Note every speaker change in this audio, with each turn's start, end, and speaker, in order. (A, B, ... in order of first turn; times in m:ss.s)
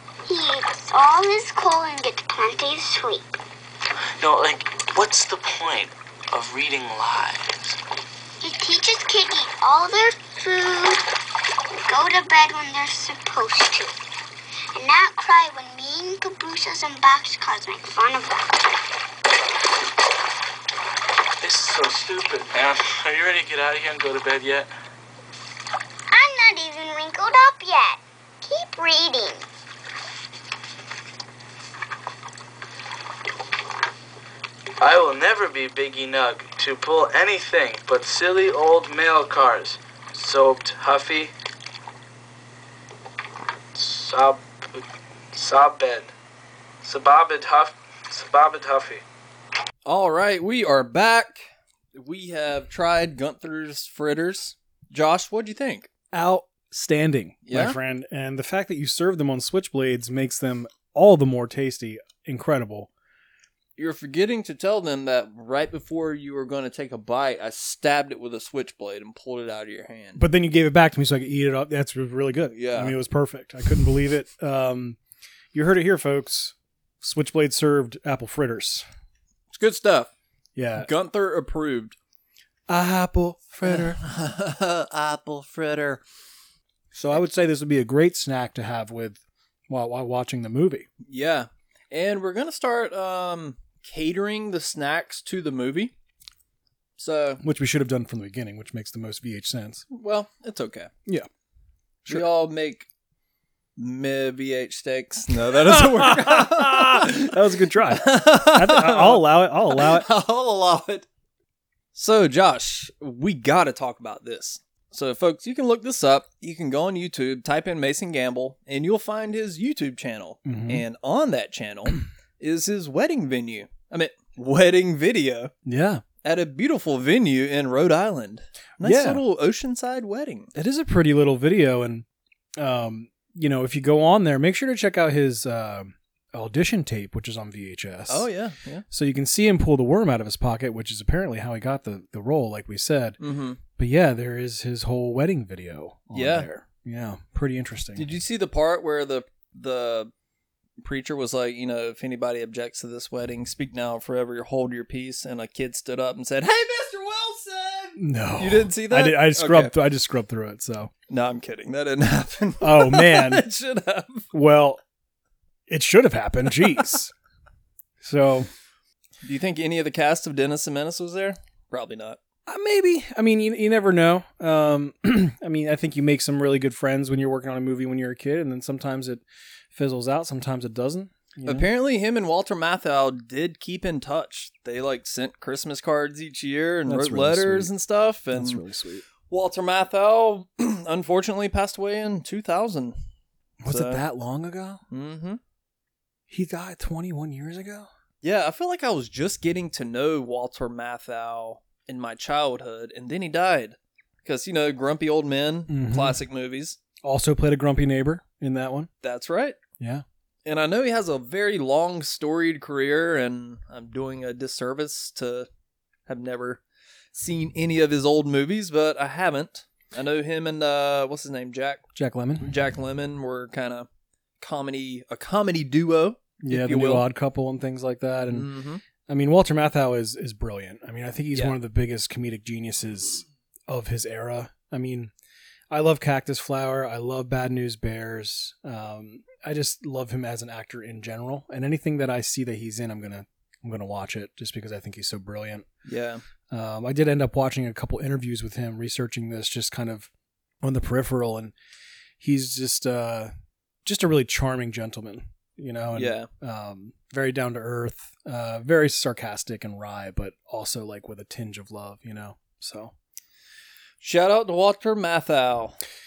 0:00.2-0:03.3 A
0:04.2-0:07.8 B
0:08.4-0:11.0 A
0:11.8-0:14.0 A
0:14.7-0:18.5 A
0:21.4-0:24.7 B
0:26.1-0:29.4 A
0:34.8-0:41.3 B
0:43.7-0:46.1 B
0:46.8-0:49.0 B
0:49.8-0:55.9 C
0:56.1-1:02.9 D
0:57.4-0:57.8 C
1:03.8-1:10.2 C
1:10.2-1:15.0 D
1:12.5-1:13.0 C
1:15.5-1:18.8 D
1:19.5-1:20.1 C
1:20.5-1:20.9 D
1:20.8-1:22.0 C
1:22.7-1:24.0 D
1:23.6-1:26.0 C
1:26.9-1:30.9 D
1:31.0-1:35.9 C
1:37.0-1:37.4 C
1:37.4-1:39.8 D
1:39.9-1:40.9 C
1:42.1-1:42.8 C
1:43.8-1:51.0 C
1:45.5-1:50.1 D
1:51.9-2:05.5 C
2:00.4-2:00.8 D
2:05.6-2:06.0 D
2:06.2-2:10.5 C
2:08.8-2:09.2 D
2:10.5-2:12.0 D
2:12.6-2:18.3 D
2:18.1-2:18.8 C
2:18.9-2:23.2 D
2:23.2-2:23.6 C
2:23.8-2:28.1 D
2:26.1-2:26.5 C
2:28.0-2:30.1 C
2:30.8-2:39.7 C
2:38.0-2:40.9 D
2:41.1-2:44.3 C
2:42.6-2:43.4 D
2:44.3-2:44.8 D
2:45.7-2:47.1 D
2:48.0-2:48.5 D
2:49.2-2:52.2 C
2:52.4-3:01.7 D
3:01.4-3:08.6 C
3:06.8-3:07.7 D
3:08.3-3:09.0 D
3:09.3-3:13.0 C
3:13.6-3:14.8 D
3:13.7-3:14.0 C
3:14.9-3:15.4 C
3:16.3-3:17.9 D
3:18.2-3:26.8 C
3:25.7-3:26.2 D
3:27.0-3:28.9 D
3:29.0-3:29.6 C
3:29.8-3:30.0 D
3:30.4-3:35.5 C
3:36.1-3:36.6 C
3:37.1-3:41.8 C
3:41.9-3:42.5 D
3:42.4-3:43.9 C
3:44.4-3:47.1 C
3:46.4-3:48.5 D
3:48.3-3:48.8 C
3:49.0-3:55.1 D
3:55.7-4:05.7 D
4:05.8-4:06.2 C
4:06.5-4:10.1 D
4:10.6-4:11.5 D
4:12.2-4:13.3 D
4:13.8-4:22.9 D
4:15.9-4:16.3 C
4:24.0-4:25.8 C